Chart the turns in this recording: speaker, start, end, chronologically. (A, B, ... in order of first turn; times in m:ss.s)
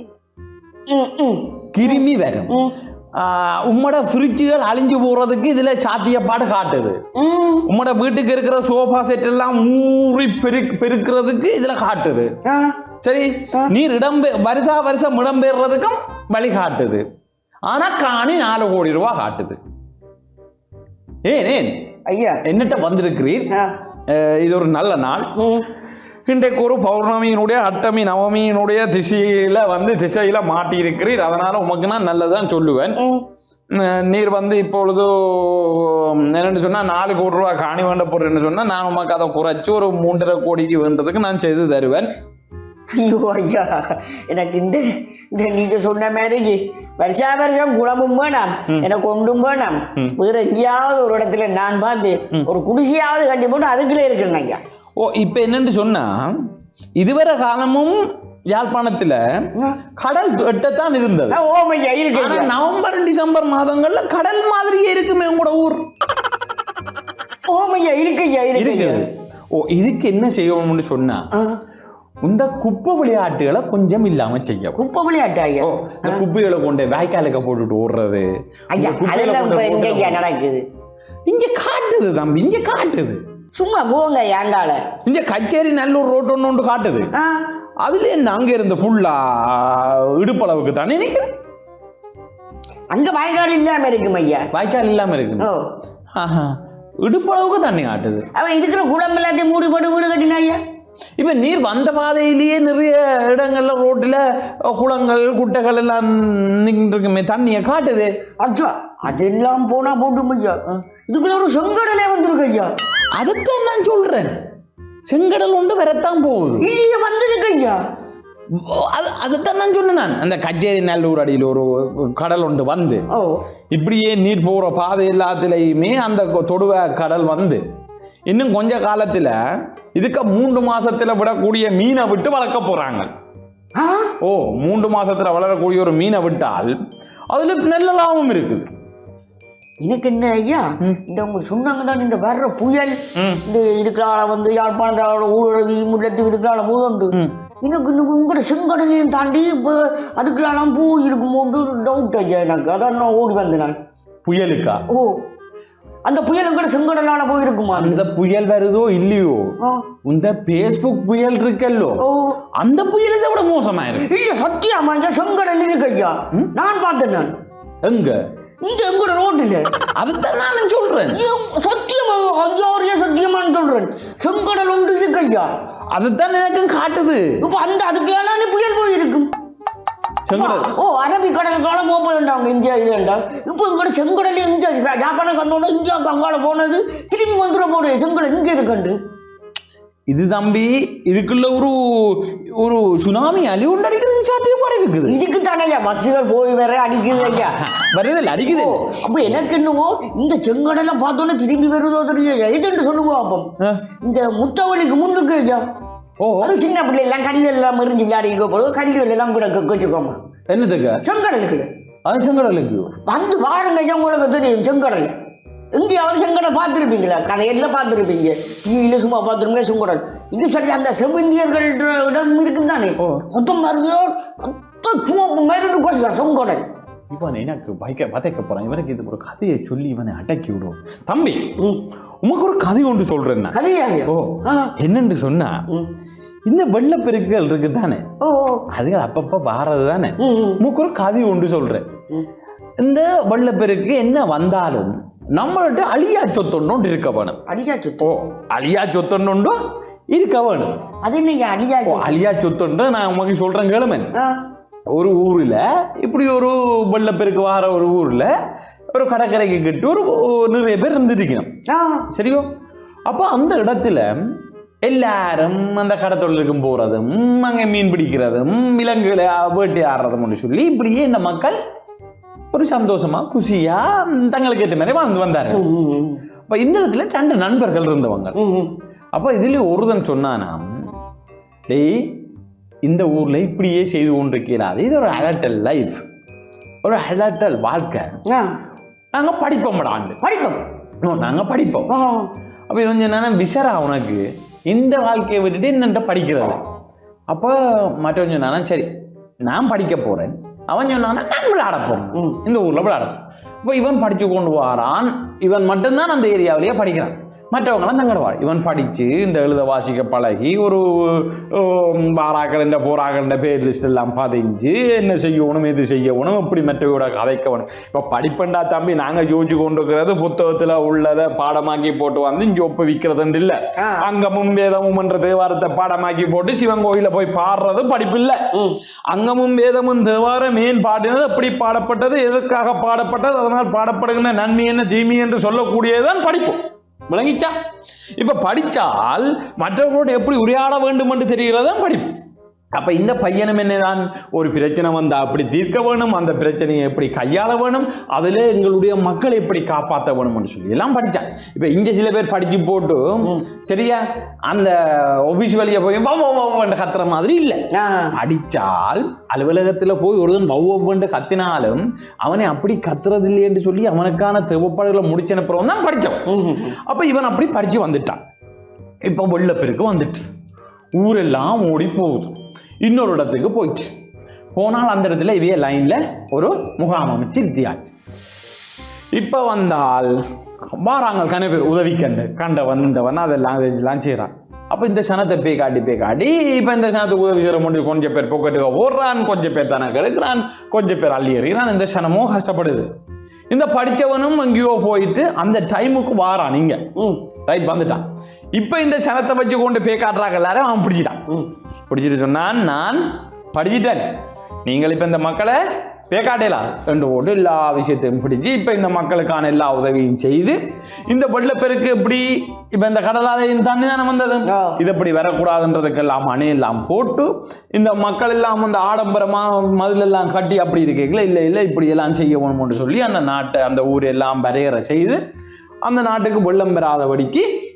0:00.9-0:02.7 A
0:01.7-0:02.6 B
0:03.1-0:07.0 B
0:07.1-0:07.7 A
0:07.7-0:12.3 B
0:12.4-0:12.7 A
0:13.0-0:17.0 B
0:17.7-0:19.6 B
0:21.2-0:21.8 B
0:22.1-0:22.4 A
0:22.4-0:23.5 B
0:24.1-0:25.3 B
0:25.4-0:25.6 A
0:26.3-0:33.0 B
0:33.0-0:33.2 A
0:33.7-0:42.1 B
0:42.9-0:54.6 A
0:55.0-0:56.4 B
0:57.0-0:59.2 B
1:00.0-1:01.4 B
1:01.3-1:02.5 A
1:02.1-1:05.9 B
1:07.5-1:09.0 A
1:08.5-1:11.2 B
1:12.2-1:14.8 B
1:14.8-1:16.2 A
1:15.6-1:20.2 B
1:18.7-1:20.6 A
1:21.3-1:23.2 B
1:23.6-1:24.8 A
1:25.0-1:27.1 B
1:27.1-1:27.4 A
1:27.8-1:31.2 B
1:32.9-1:34.4 A
1:34.5-1:35.5 B
1:36.2-1:38.2 B
1:38.3-1:40.6 A
1:41.2-1:48.1 B
1:48.4-1:52.7 A
1:53.2-1:54.4 B
1:55.1-1:56.7 B
1:56.6-1:57.8 A
1:58.5-2:03.0 B
2:03.1-2:03.4 A
2:03.7-2:07.6 B
2:08.3-2:09.4 B
2:10.0-2:13.1 B
2:13.8-2:14.1 A
2:14.2-2:16.7 B
2:17.3-2:18.7 B
2:19.8-2:33.8 A
2:23.2-2:23.4 B
2:34.2-2:34.8 B
2:34.9-2:35.2 A
2:36.0-2:38.0 A
2:37.7-2:42.0 B
2:39.6-2:39.8 A
2:42.0-2:42.4 A
2:42.6-2:44.1 B
2:44.0-2:47.3 A
2:47.8-2:48.2 B
2:48.6-2:49.6 A
2:50.0-2:51.2 B
2:51.1-2:55.5 A
2:55.9-2:57.4 B
2:57.4-2:59.3 A
3:00.2-3:00.7 B
3:00.3-3:09.0 A
3:10.1-3:15.2 B
3:15.0-3:17.6 A
3:17.1-3:19.4 B
3:18.5-3:23.5 A
3:24.0-3:25.6 A
3:26.2-3:26.6 B
3:26.4-3:30.2 A
3:30.5-3:31.0 B
3:31.0-3:31.7 A
3:32.0-3:32.9 B
3:33.0-3:35.1 A
3:35.7-3:46.6 A
3:47.1-3:51.5 B
3:52.2-3:53.5 B
3:53.5-3:54.7 A
3:54.1-3:55.6 B
3:56.4-3:58.0 B
3:58.2-3:58.6 A
3:58.7-4:01.9 B
4:00.2-4:00.6 A
4:02.8-4:07.4 B
4:07.5-4:08.1 A
4:08.0-4:09.6 B
4:10.1-4:10.8 B
4:11.0-4:12.2 A
4:11.8-4:14.1 B
4:14.9-4:18.3 B
4:18.9-4:21.5 B
4:21.7-4:22.0 A
4:22.1-4:22.5 B
4:23.1-4:24.1 B
4:24.8-4:31.6 B
4:32.5-4:35.6 B
4:35.5-4:36.2 A
4:36.5-4:38.4 B
4:38.3-4:38.7 A
4:39.1-4:40.7 B
4:41.7-4:42.2 B
4:42.8-4:46.0 B
4:46.8-4:48.1 B
4:48.3-4:48.5 A
4:49.1-4:50.2 B
4:50.2-4:50.6 A
4:51.0-4:51.9 B
4:51.9-4:52.3 A
4:52.7-4:56.6 B
4:57.3-4:58.9 B
4:59.5-5:28.4 B
5:23.8-5:24.0 A
5:29.1-5:37.5 B
5:38.2-5:42.1 B
5:42.7-6:06.2 B
5:57.7-5:58.2 A
6:06.3-6:06.8 A
6:06.8-6:08.2 B
6:09.0-6:10.3 B
6:11.0-6:13.9 B
6:14.5-6:17.9 B
6:19.2-6:32.9 B
6:33.5-6:36.8 B
6:37.0-6:37.2 A
6:37.4-6:41.2 B
6:41.9-6:44.1 B
6:44.6-6:45.6 B
6:46.1-7:05.2 B
6:54.4-6:54.8 A
7:05.8-7:07.5 B